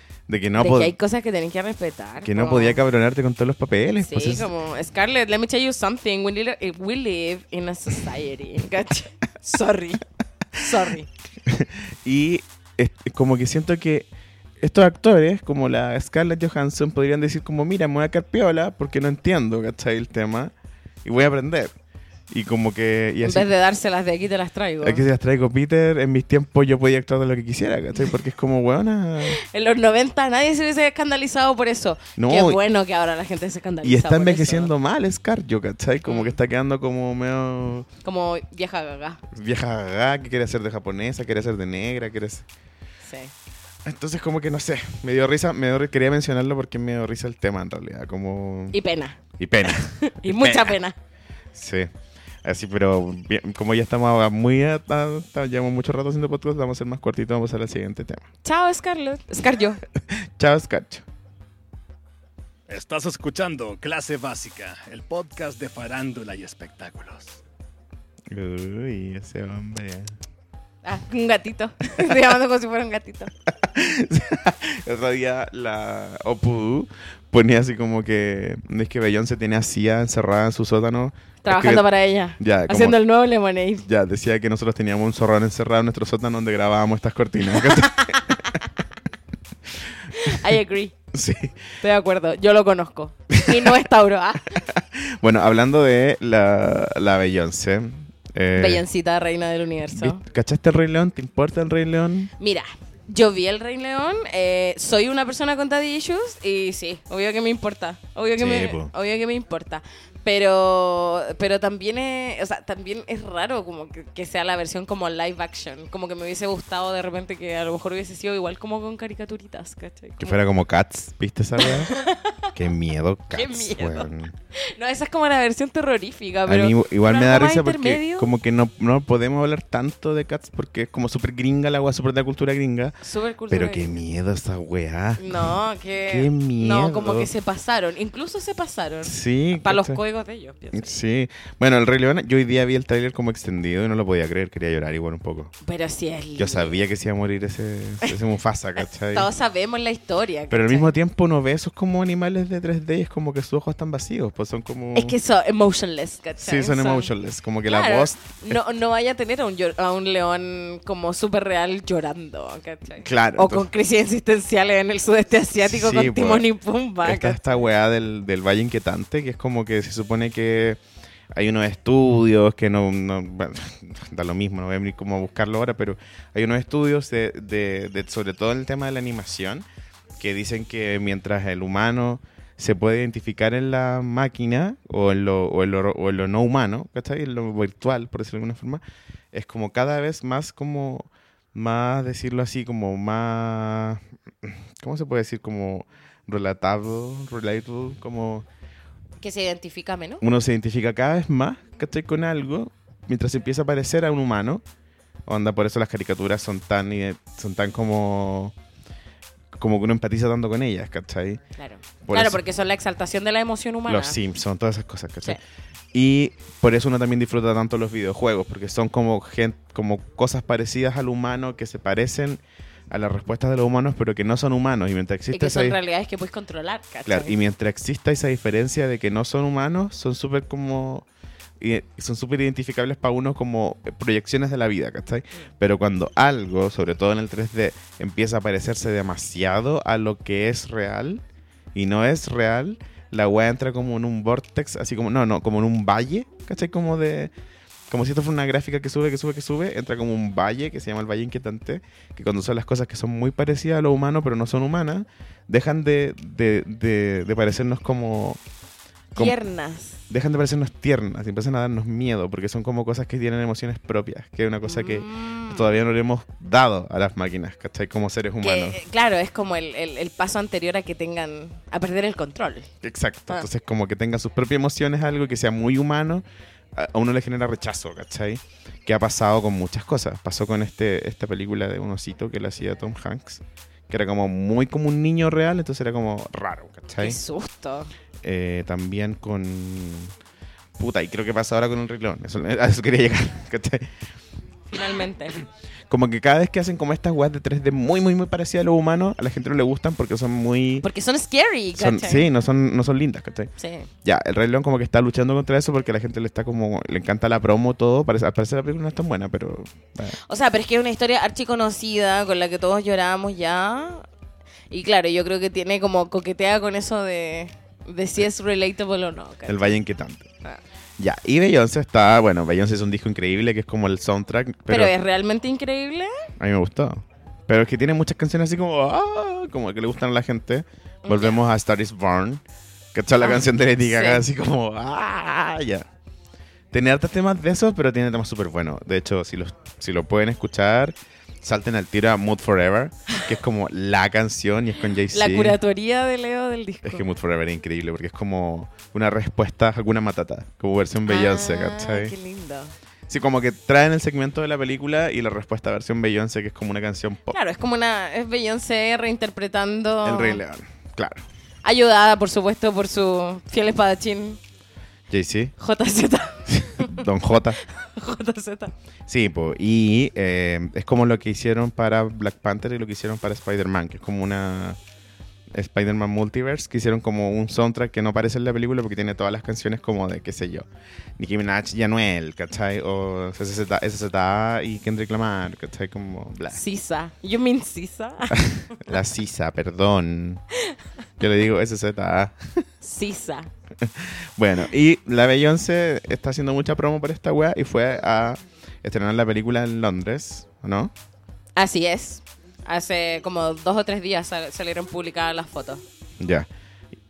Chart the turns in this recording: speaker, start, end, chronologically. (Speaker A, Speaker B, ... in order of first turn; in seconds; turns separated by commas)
Speaker A: 0.3-0.9, Speaker B: 0.6-2.8, Speaker A: 2.2-4.5, Speaker B: 4.0-10.0, Speaker B: 10.6-11.1, Speaker A: 11.5-14.1, Speaker A: 14.6-20.5, Speaker A: 21.0-21.7, Speaker A: 22.3-23.5, Speaker B: 23.2-25.0, Speaker A: 24.8-29.4, Speaker B: 29.3-34.7, Speaker A: 32.2-32.6, Speaker A: 33.8-37.9, Speaker B: 36.1-36.4, Speaker B: 38.0-39.2, Speaker A: 39.3-42.5, Speaker B: 43.0-43.3, Speaker A: 43.9-48.8, Speaker B: 48.7-51.0, Speaker A: 49.4-50.8, Speaker A: 51.5-51.9, Speaker A: 52.4-58.2, Speaker B: 58.4-59.8, Speaker A: 60.0-61.0, Speaker C: 62.7-67.4, Speaker A: 68.3-70.2, Speaker B: 70.8-73.3, Speaker A: 73.5-81.9, Speaker B: 81.4-83.8, Speaker A: 82.4-83.0, Speaker A: 83.8-88.5, Speaker B: 87.6-88.7, Speaker B: 90.1-90.9, Speaker A: 91.1-91.5, Speaker B: 91.8-94.6, Speaker A: 94.6-98.8, Speaker B: 98.5-100.2, Speaker A: 99.9-102.3, Speaker B: 102.4-120.4, Speaker A: 108.4-108.9, Speaker A: 120.2-122.0, Speaker B: 121.6-122.5, Speaker A: 122.5-124.3, Speaker B: 123.3-128.3, Speaker A: 126.5-133.0, Speaker B: 133.0-133.9, Speaker A: 133.5-137.3, Speaker B: 135.2-140.9, Speaker A: 139.0-140.0, Speaker A: 140.7-145.5, Speaker B: 145.6-146.8, Speaker A: 146.4-149.3, Speaker B: 148.8-150.9, Speaker A: 150.5-155.2, Speaker B: 154.9-157.1, Speaker A: 156.4-158.6, Speaker B: 157.7-167.4, Speaker A: 163.0-163.7, Speaker A: 165.6-166.5, Speaker A: 167.0-170.8, Speaker A: 171.3-179.7, Speaker A: 180.2-188.8, Speaker A: 189.3-198.5, Speaker B: 199.2-200.2, Speaker A: 200.2-204.6, Speaker A: 205.3-208.6, Speaker A: 209.6-211.4, Speaker B: 211.6-214.2, Speaker A: 212.0-212.4, Speaker A: 213.9-215.4, Speaker A: 215.9-225.8, Speaker B: 225.3-227.3, Speaker A: 227.1-231.1, Speaker A: 231.6-241.2, Speaker A: 241.7-247.3, Speaker A: 247.9-258.4, Speaker B: 259.1-260.0, Speaker A: 260.1-268.8, Speaker B: 264.6-265.7, Speaker B: 268.4-272.7, Speaker A: 272.8-276.2, Speaker A: 276.8-287.2, Speaker B: 287.0-287.9, Speaker A: 288.2-290.1, Speaker A: 290.8-293.9, Speaker B: 294.7-295.4, Speaker A: 295.9-300.9, Speaker B: 300.8-302.3, Speaker A: 301.8-303.5, Speaker B: 303.6-303.9, Speaker A: 304.0-310.2, Speaker B: 310.3-314.1, Speaker B: 314.7-319.8, Speaker A: 319.5-320.3, Speaker A: 321.0-324.9, Speaker B: 324.7-326.3, Speaker A: 326.4-335.9, Speaker B: 331.1-331.4, Speaker B: 333.2-334.2, Speaker A: 336.7-345.6, Speaker B: 345.1-347.1, Speaker A: 346.8-352.1, Speaker B: 351.1-352.7, Speaker A: 353.1-357.4, Speaker B: 357.3-360.4, Speaker A: 360.0-361.2, Speaker B: 361.6-364.4, Speaker A: 365.1-365.5, Speaker B: 365.6-367.1, Speaker A: 366.5-367.6, Speaker B: 367.6-368.7, Speaker A: 369.1-374.8, Speaker A: 375.5-380.7, Speaker A: 381.2-386.6, Speaker B: 386.5-388.9, Speaker A: 388.3-390.4, Speaker A: 391.2-392.6, Speaker B: 392.8-393.5, Speaker A: 393.8-400.9, Speaker B: 401.6-405.8, Speaker A: 406.2-406.5